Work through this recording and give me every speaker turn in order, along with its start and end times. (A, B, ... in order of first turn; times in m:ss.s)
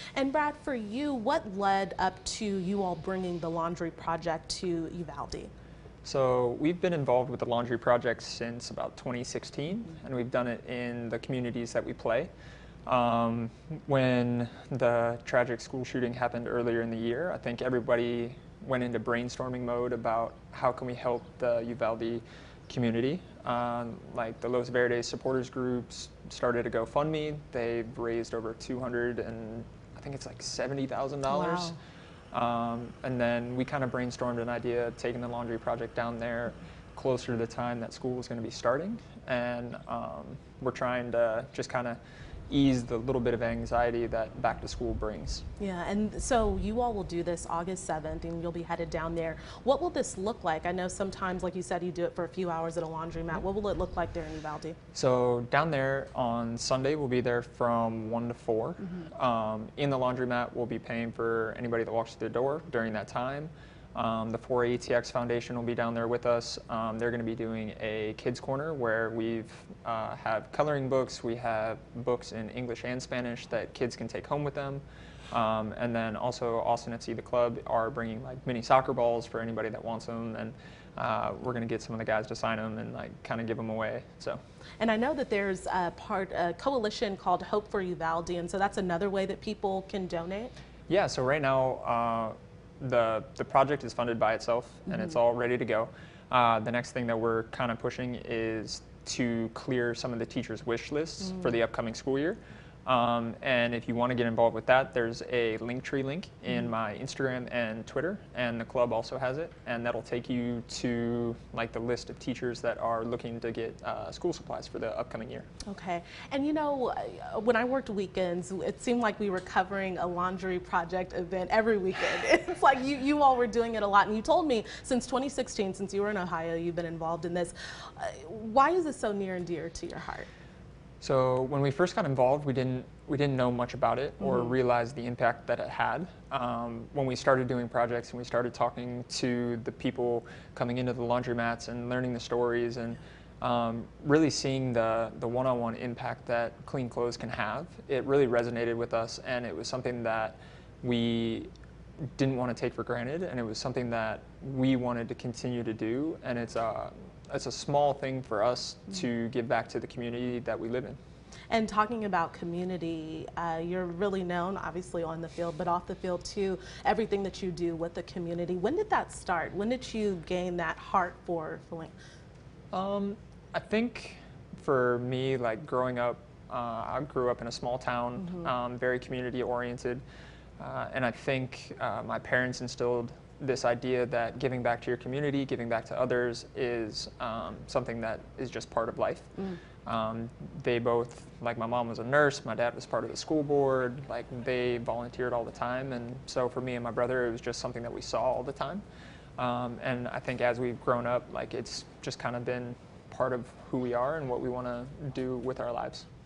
0:00.2-0:05.5 A
0:06.0-0:12.3 B
0:12.9-0:31.8 B
0:31.3-0:31.8 A
0:32.3-0:42.0 B
0:42.5-0:45.4 B
0:45.6-0:54.8 A
0:54.9-1:24.4 B
1:24.8-1:30.5 A
1:30.9-1:55.5 B
1:55.7-2:10.3 A
2:11.0-2:31.5 B
2:14.2-2:14.5 A
2:32.2-2:41.0 B
2:41.5-2:52.0 A
2:52.7-3:00.0 B
2:58.2-2:58.5 A
3:00.6-3:09.3 B
3:09.8-3:18.8 B
3:19.4-3:26.1 B